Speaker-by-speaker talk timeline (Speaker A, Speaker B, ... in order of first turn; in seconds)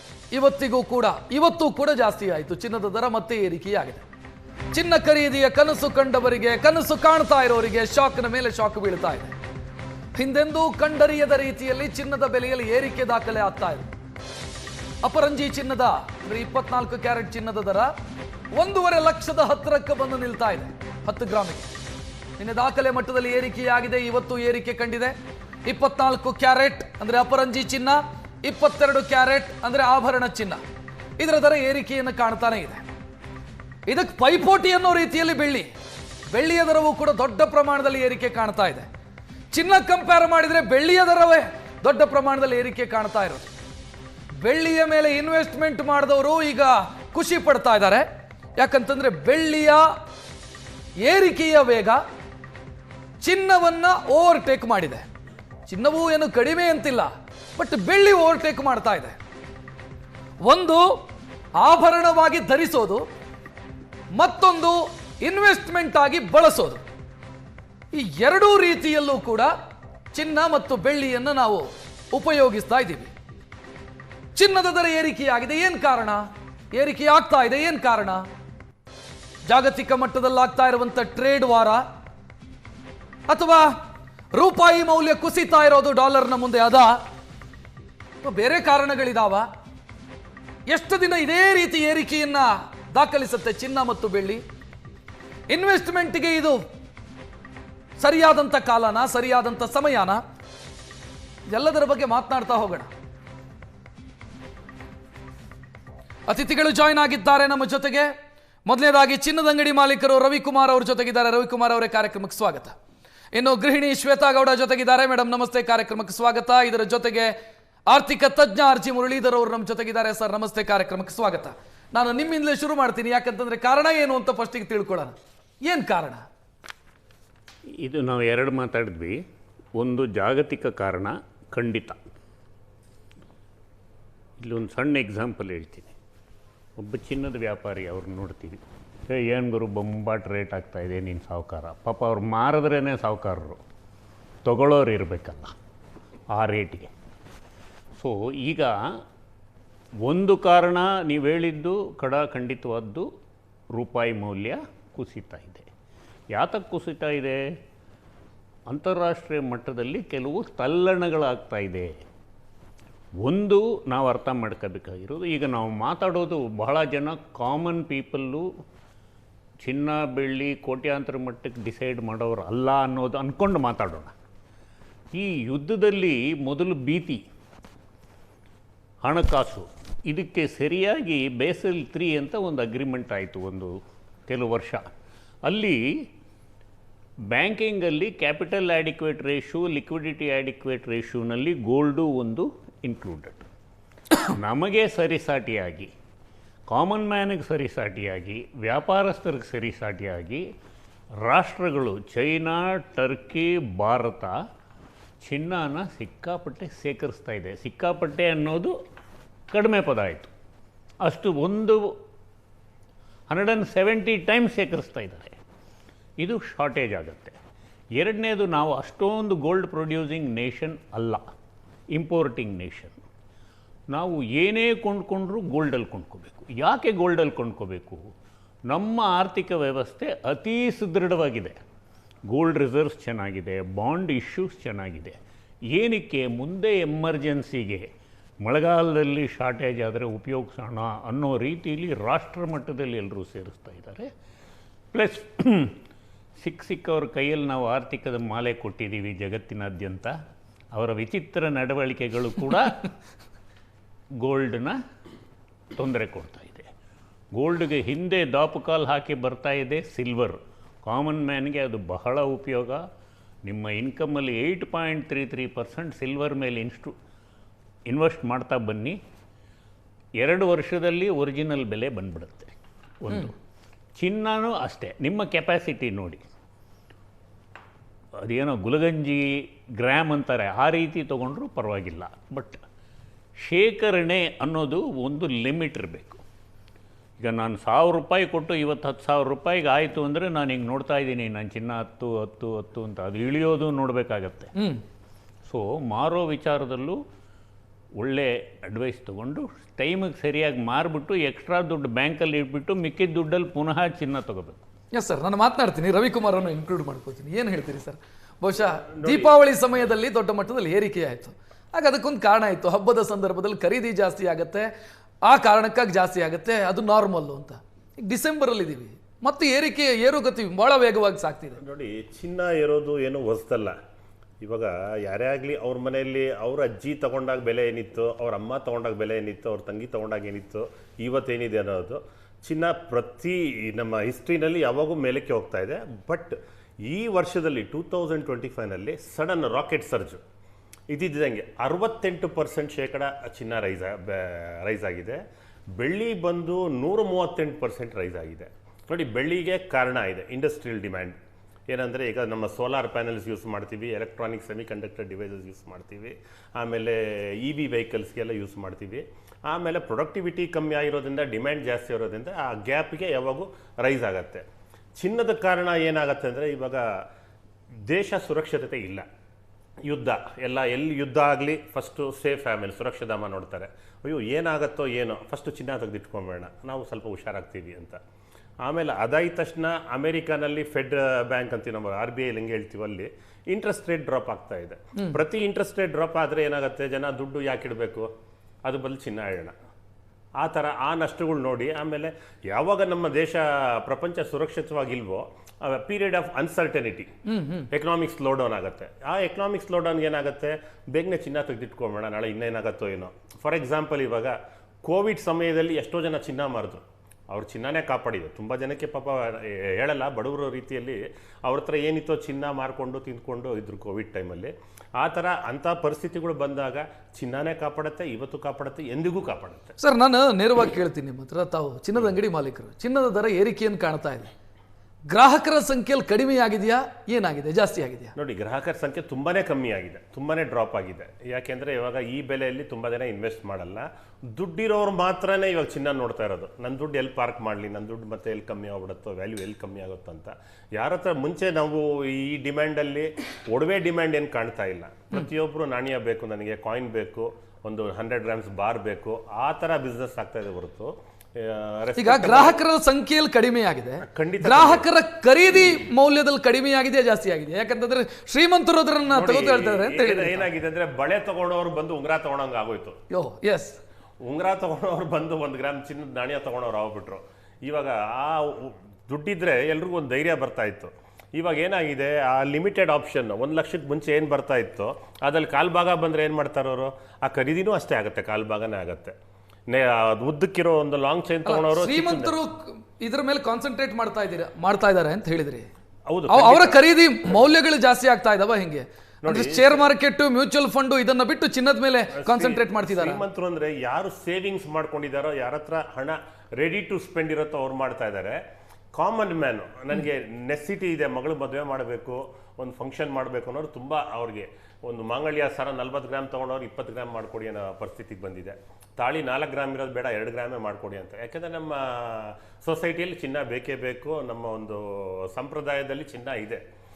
Speaker A: 0.3-4.0, 4.7-9.3, 10.2-13.9, 15.0-17.9, 18.5-21.7, 22.4-25.1, 25.7-30.6, 31.2-32.8, 33.9-35.7, 36.3-38.9, 39.5-43.5, 44.4-48.0, 48.6-49.9, 51.0-52.0, 53.2-55.0, 55.7-59.2, 60.4-61.0, 61.6-63.0, 64.2-66.8, 67.9-69.5, 70.1-73.1, 74.3-78.2, 79.5-81.8, 83.3-83.7, 84.3-87.0, 88.2-89.5, 90.7-94.4, 95.5-96.6, 98.0-100.2, 101.5-102.9, 106.3-108.1, 108.7-112.8, 113.3-117.3, 117.9-126.2, 294.6-294.8, 304.9-314.7, 315.2-321.6, 397.3-397.6, 419.8-424.3, 425.1-428.1, 452.0-460.4, 463.1-463.8, 481.4-485.7, 486.3-493.2
Speaker B: 127.8-129.2, 129.8-132.0, 134.4-135.9, 136.8-138.6, 139.1-143.6, 144.4-145.5, 146.3-146.9, 147.9-148.7, 150.0-153.1, 153.7-155.7, 156.3-157.4, 158.7-161.9, 163.2-168.4, 169.6-174.1, 175.1-177.2, 179.0-183.7, 184.3-184.8, 185.4-185.8, 187.3-193.4, 194.3-195.9, 196.7-200.4, 201.2-204.3, 205.2-208.7, 209.5-210.3, 211.0-211.8, 213.3-215.3, 216.2-217.3, 218.0-221.2, 221.9-223.0, 223.9-228.0, 228.7-231.6, 232.3-235.2, 235.7-237.8, 238.4-244.1, 244.9-245.8, 246.4-250.1, 250.7-252.9, 254.2-254.8, 255.8-256.7, 257.4-262.8, 263.4-266.9, 267.9-269.0, 270.2-273.3, 274.0-276.2, 278.2-282.6, 283.4-286.2, 287.2-294.5, 295.4-297.0, 298.0-304.6
Speaker C: 308.8-309.3, 321.6-323.8, 324.4-340.2, 340.9-345.2, 345.8-351.1, 351.7-364.4, 365.0-366.9, 367.9-369.0, 369.9-378.0, 378.6-388.1, 388.6-389.5, 390.4-397.1, 397.7-419.7, 428.1-452.6, 454.0-454.8, 459.1-462.9, 464.2-479.1, 479.7-482.3, 486.1-486.8, 489.2-489.8, 492.1-498.4, 498.9-516.6